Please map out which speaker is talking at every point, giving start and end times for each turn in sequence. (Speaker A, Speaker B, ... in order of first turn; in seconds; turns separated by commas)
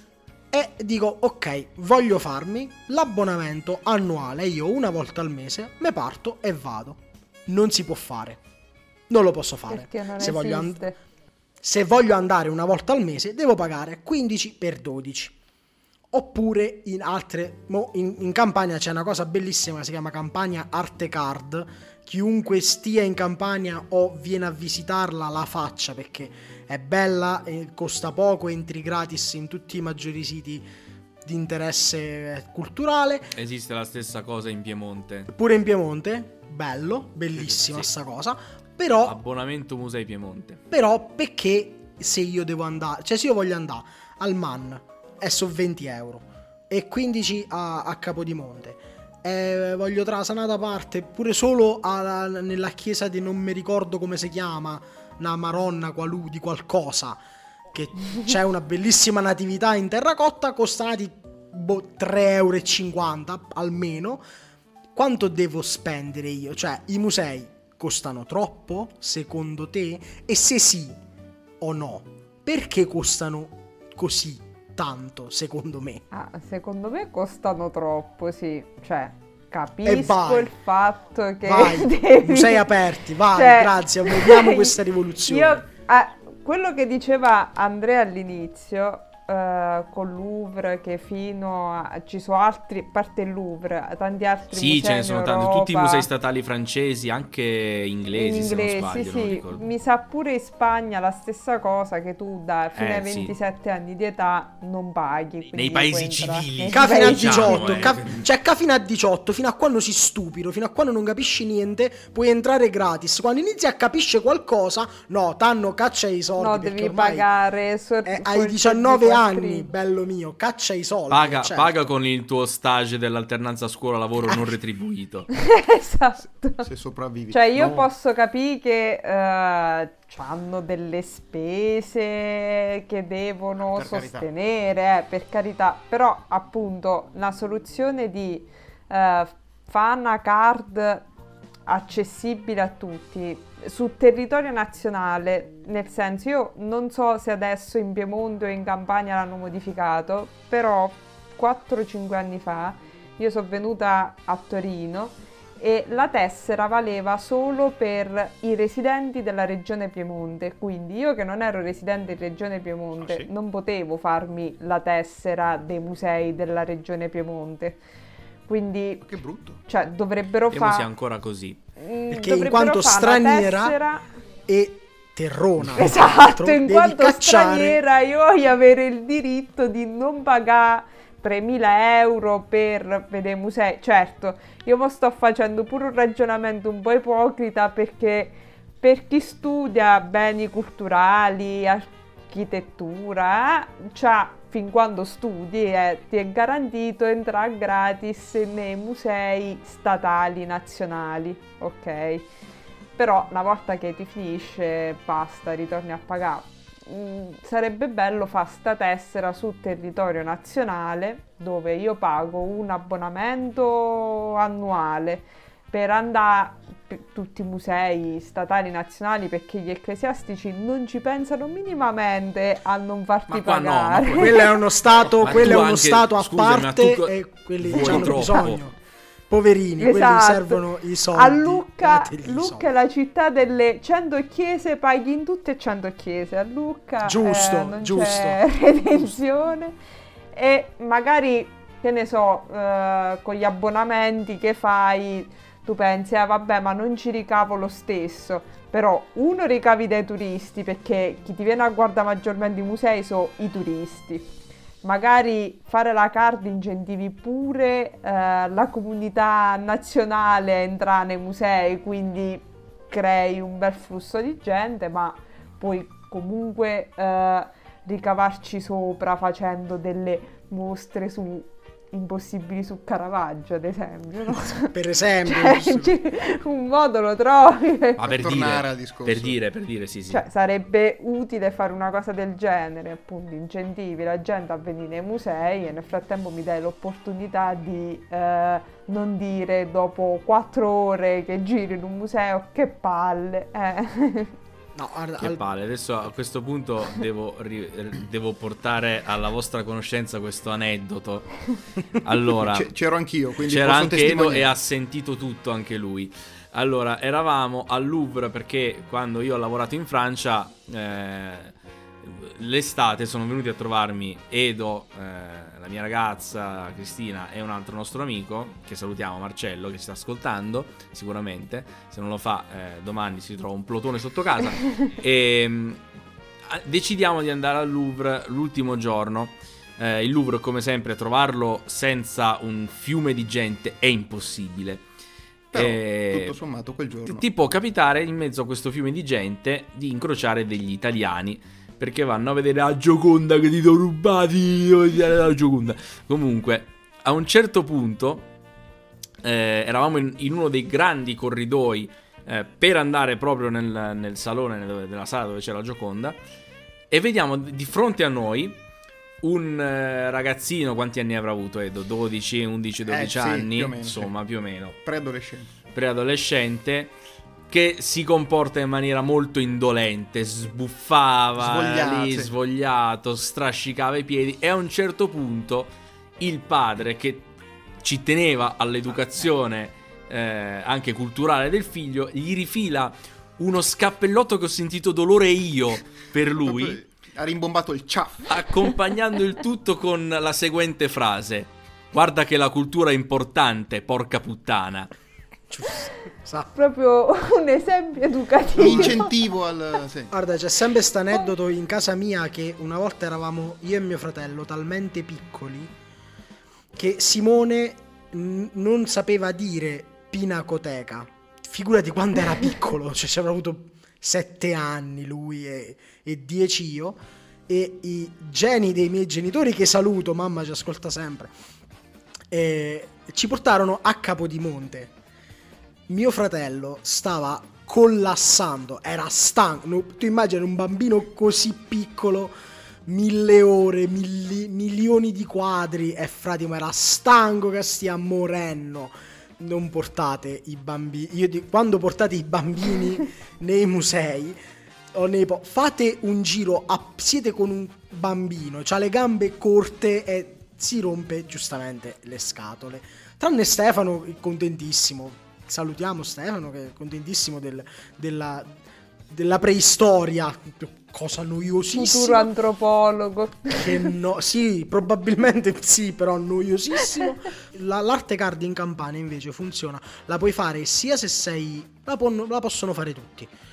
Speaker A: 0.5-8.4, Speaker A: 9.1-10.8, Speaker B: 9.7-11.0, Speaker A: 11.6-15.3, Speaker A: 16.1-30.6, Speaker A: 31.2-33.3, Speaker C: 33.4-35.3, Speaker A: 35.3-39.2, Speaker C: 39.0-40.6, Speaker A: 40.7-57.2, Speaker A: 57.7-64.2, Speaker A: 64.9-71.0, Speaker A: 71.6-76.0, Speaker B: 76.1-96.1, Speaker A: 79.8-80.5, Speaker A: 81.4-85.6, Speaker C: 94.5-99.7, Speaker B: 98.1-108.0, Speaker C: 102.8-103.4, Speaker C: 105.5-108.2, Speaker A: 106.7-117.3, Speaker B: 116.4-119.7, Speaker A: 118.0-121.8, Speaker C: 121.1-125.3, Speaker B: 125.3-126.7, Speaker D: 126.6-127.9, Speaker B: 127.3-141.1, Speaker D: 133.7-134.3, Speaker B: 141.7-167.8, Speaker D: 163.0-163.3, Speaker B: 168.5-169.1, Speaker D: 169.0-169.6, Speaker B: 169.7-170.9, Speaker C: 170.5-171.6, Speaker B: 171.8-174.1, Speaker A: 172.1-173.8, Speaker A: 174.5-177.8, Speaker B: 175.8-202.3, Speaker B: 203.0-224.5, Speaker C: 223.3-224.4, Speaker A: 224.2-228.8, Speaker C: 225.1-228.6, Speaker A: 229.3-232.7, Speaker B: 229.8-239.8, Speaker A: 237.0-238.4, Speaker B: 240.3-254.3, Speaker B: 254.8-278.0, Speaker A: 274.4-276.0, Speaker C: 278.0-280.2, Speaker D: 278.1-279.4, Speaker B: 280.1-294.4, Speaker A: 294.8-295.4, Speaker C: 295.2-301.3, Speaker C: 302.0-302.7, Speaker D: 302.4-304.5, Speaker C: 303.5-325.8, Speaker C: 326.5-334.8, Speaker D: 335.5-337.2, Speaker C: 335.5-336.4, Speaker C: 337.1-348.3, Speaker C: 349.2-356.2, Speaker C: 356.9-358.6, Speaker C: 359.2-364.8, Speaker D: 362.9-364.1, Speaker D: 364.8-365.6, Speaker C: 365.7-366.9, Speaker C: 367.5-377.3, Speaker D: 371.4-372.3, Speaker C: 377.8-386.8, Speaker D: 386.5-388.3, Speaker C: 388.3-394.9, Speaker A: 395.5-396.5, Speaker B: 396.6-399.1, Speaker A: 398.6-399.0, Speaker D: 398.6-400.1, Speaker A: 400.1-405.7, Speaker A: 406.8-421.3, Speaker A: 422.3-424.9, Speaker A: 425.9-432.3, Speaker A: 432.9-444.4, Speaker A: 444.9-458.6, Speaker A: 459.1-462.3, Speaker B: 461.7-463.9, Speaker A: 463.6-473.3